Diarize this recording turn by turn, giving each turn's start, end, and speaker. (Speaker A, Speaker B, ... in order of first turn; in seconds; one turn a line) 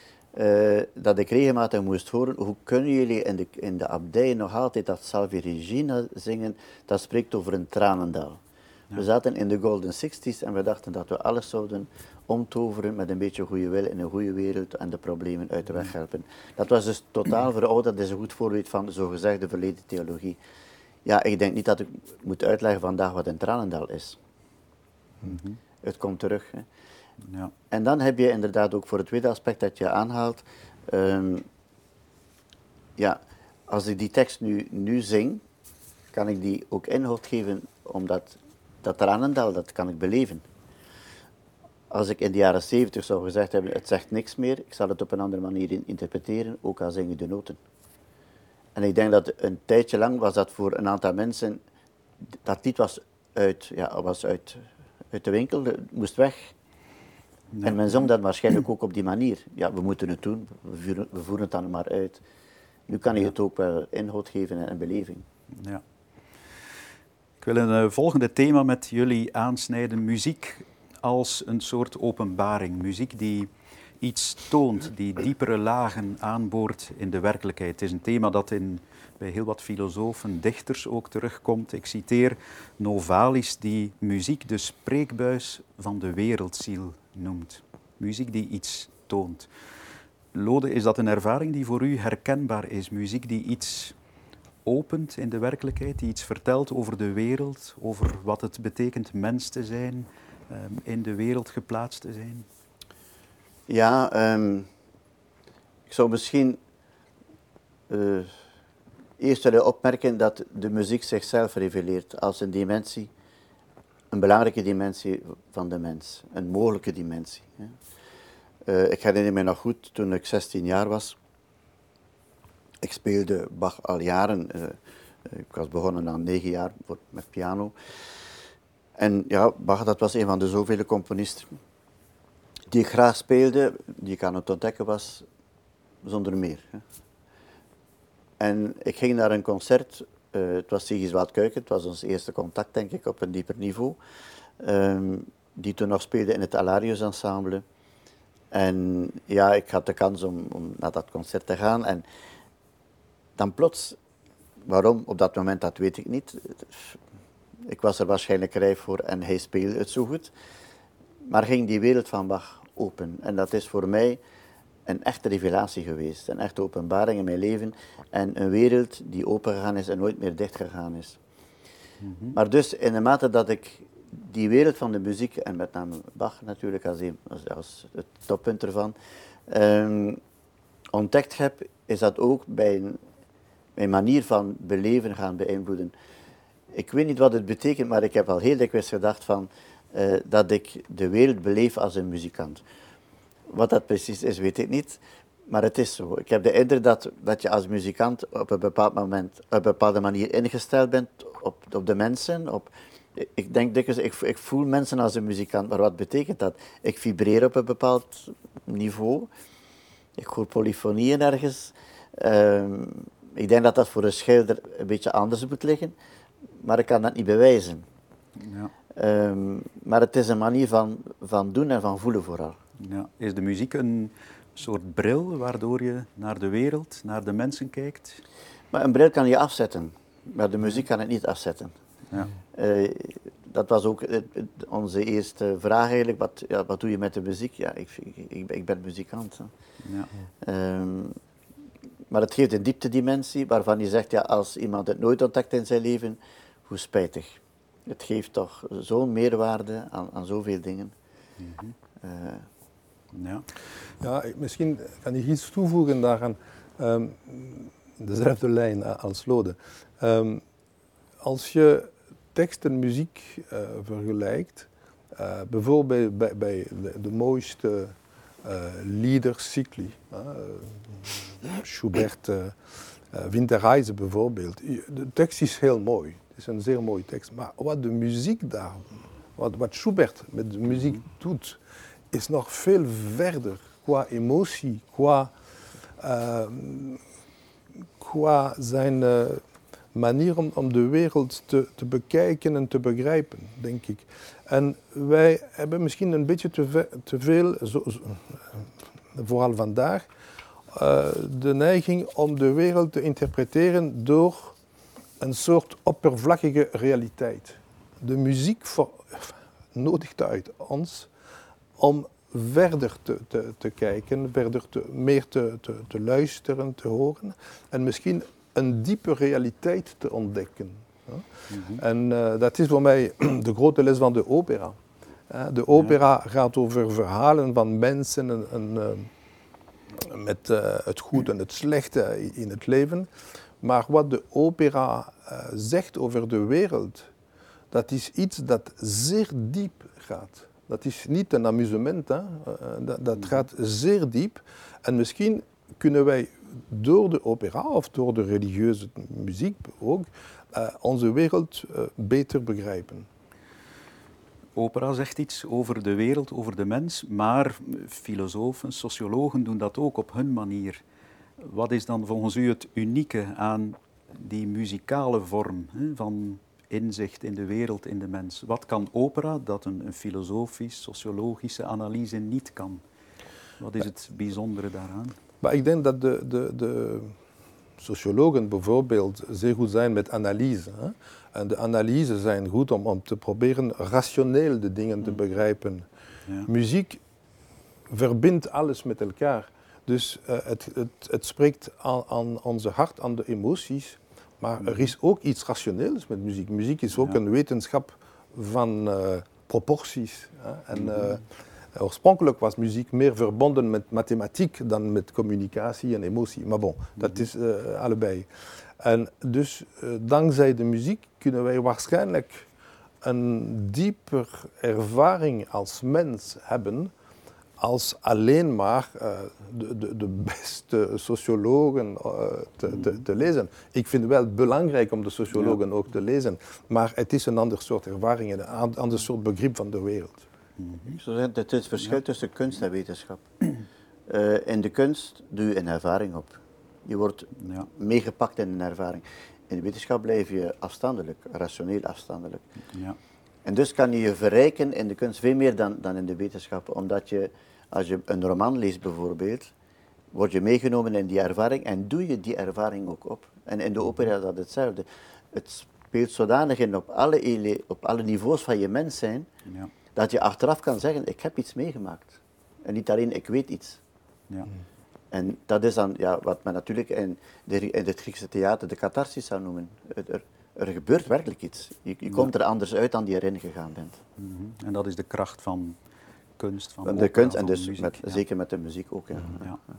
Speaker A: 0.3-8.4
Speaker A: 8.9-20.4
Speaker A: 21.1-24.2
Speaker B: 25.2-25.6
Speaker A: 25.8-26.7
Speaker B: 27.2-27.5
Speaker A: 27.7-31.5
Speaker A: 33.0-35.4
Speaker A: 36.1-40.5
Speaker A: 41.9-47.6
Speaker A: 48.8-51.6
Speaker A: 52.4-56.5
Speaker B: 57.5-57.8
Speaker A: 57.6-62.2
Speaker A: 62.9-65.3
Speaker B: 65.6-65.8
Speaker B: 67.4-89.5
Speaker B: 90.3-94.0
Speaker B: 94.7-102.5
Speaker A: 103.7-104.7
Speaker A: 105.9-106.6
Speaker A: 107.9-108.3
Speaker A: 109.2-113.1
Speaker A: 114.1-117.8
Speaker A: 118.7-121.2
Speaker A: 122.8-127.8
Speaker A: 129.0-131.6
Speaker A: 132.7-135.3
Speaker A: 136.0-136.8
Speaker A: 138.4-144.0
Speaker A: 144.6-147.6
Speaker A: 148.5-152.1
Speaker A: 153.4-154.0
Speaker A: 154.6-157.0
Speaker A: 157.7-160.3
Speaker A: 161.2-164.2
Speaker A: 164.9-171.2
Speaker B: 172.0-172.4
Speaker A: 172.3-179.0
Speaker A: 179.5-180.2
Speaker A: 180.9-183.0
Speaker A: 183.8-185.9
Speaker A: 186.7-192.6
Speaker A: 193.5-209.3
Speaker A: 210.2-215.9
Speaker A: 216.6-217.9
Speaker B: 218.4-218.7
Speaker A: 218.9-222.6
Speaker B: 222.8-228.2
Speaker A: 228.7-231.8
Speaker A: 232.5-239.5
Speaker B: 239.8-240.1
Speaker A: 240.4-241.2
Speaker A: 242.1-250.9
Speaker B: 251.4-251.8
Speaker A: 252.0-252.5
Speaker B: 253.1-253.5
Speaker C: 254.0-260.4
Speaker C: 261.2-285.3
Speaker C: 286.0-287.0
Speaker C: 288.0-289.4
Speaker C: 289.9-300.1
Speaker C: 300.7-304.6
Speaker C: 305.2-311.1
Speaker C: 311.8-329.1
Speaker B: 321.5-321.8
Speaker C: 329.9-333.1
Speaker C: 333.6-337.1
Speaker C: 337.7-353.1
Speaker B: 354.6-360.8
Speaker B: 361.4-372.8
Speaker B: 373.6-375.2
Speaker C: 375.4-377.2
Speaker C: 377.8-385.9
Speaker C: 386.4-387.0
Speaker C: 387.9-412.5
Speaker B: 394.6-394.9
Speaker B: 400.8-401.2
Speaker C: 413.0-416.9
Speaker C: 417.6-430.2
Speaker B: 430.6-431.0
Speaker A: 430.9-433.4
Speaker A: 434.1-442.4
Speaker B: 437.4-437.7
Speaker B: 442.7-443.0
Speaker A: 443.4-449.5
Speaker A: 450.1-459.3
Speaker B: 459.5-459.7
Speaker A: 459.9-463.8
Speaker A: 465.1-474.0
Speaker B: 474.2-475.8
Speaker B: 476.4-478.2
Speaker A: 476.9-479.5